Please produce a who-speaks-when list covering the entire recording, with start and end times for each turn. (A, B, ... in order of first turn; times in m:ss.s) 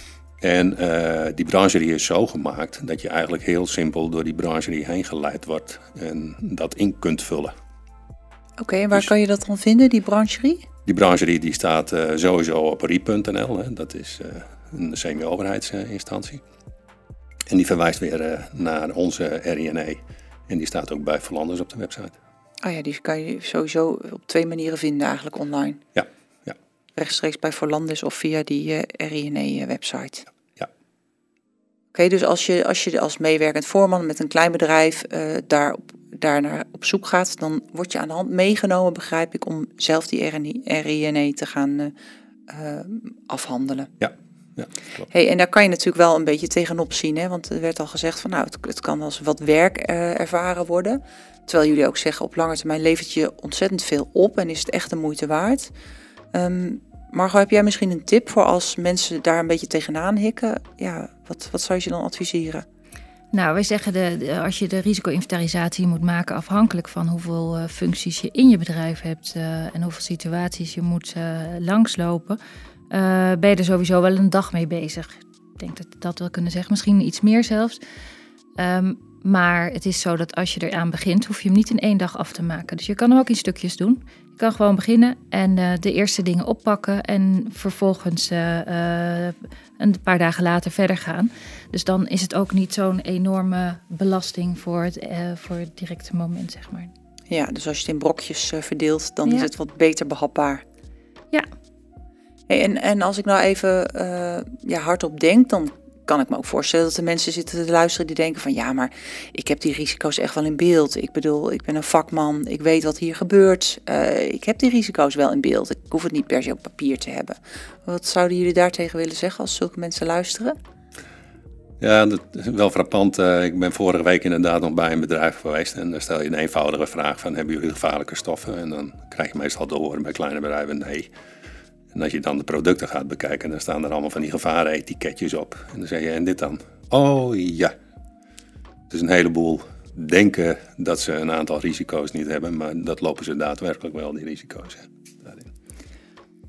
0:00.4-0:07.5 A
0:08.6-0:10.6 B
0:10.9-0:16.4 A
0:17.5-0:22.1 A
0:22.6-0:25.8 B
0:25.9-0:26.6 A
0:27.0-0:30.2 B
0:31.9-0:41.9 B
0:42.5-0:43.9 B
0:44.0-0:45.0 A
0:45.1-0:55.7 B
0:56.3-1:02.6 B
1:03.3-1:12.4 C
1:12.9-1:17.8 C
1:18.6-1:36.9 C
1:37.3-1:40.6 B
1:42.5-2:00.6 B
2:01.8-2:11.1 A
2:11.9-2:17.7 A
2:18.9-2:25.5 A